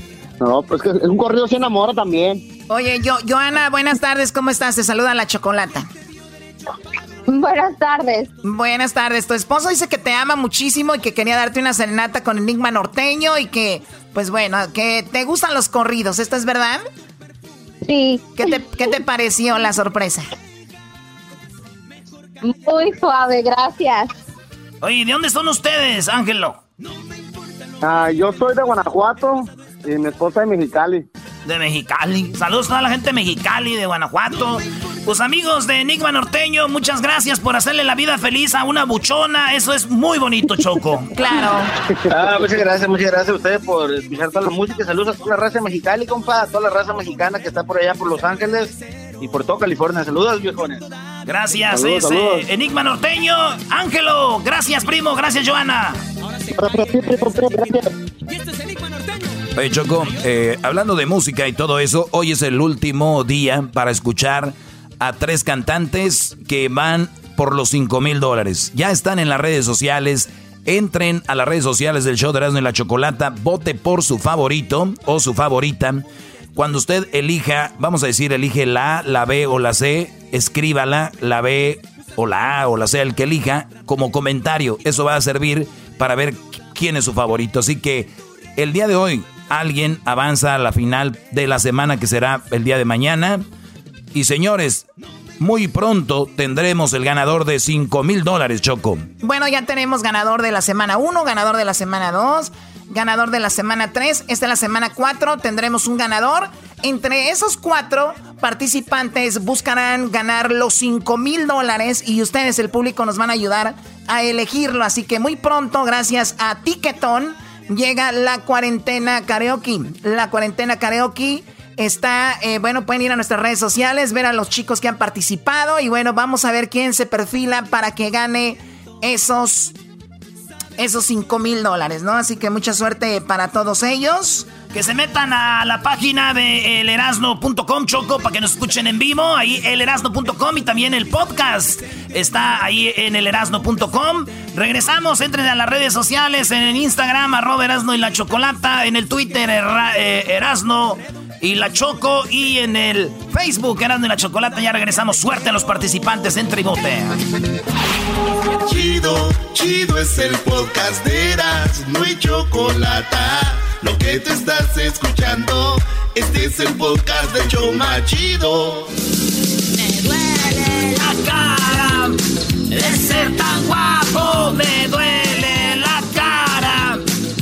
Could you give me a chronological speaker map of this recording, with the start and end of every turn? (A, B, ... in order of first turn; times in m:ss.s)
0:00.4-0:02.4 A
0:02.7-0:05.9 B
0:07.3-0:08.3 C
0:08.4-0:16.8 B
0:17.8-0:18.5 C
0:18.4-0:20.3 B
0:22.4-0:24.1 C
0:24.8-0:26.6 D
0:27.8-0:31.1 A
0:31.4-0:41.1 D
0:41.1-0:41.7 B
0:42.1-0:50.8 E
0:51.2-0:56.0 D
0:51.7-0:52.4 A
0:56.6-0:57.9 A
0:59.5-1:33.4 F
1:34.1-1:34.8 F
1:35.4-1:39.1 F
1:39.2-2:09.7 B
2:10.8-2:14.5 B
2:14.7-2:37.2 D
2:38.5-2:48.9 G
2:50.0-2:52.2 D
2:52.7-2:57.0 D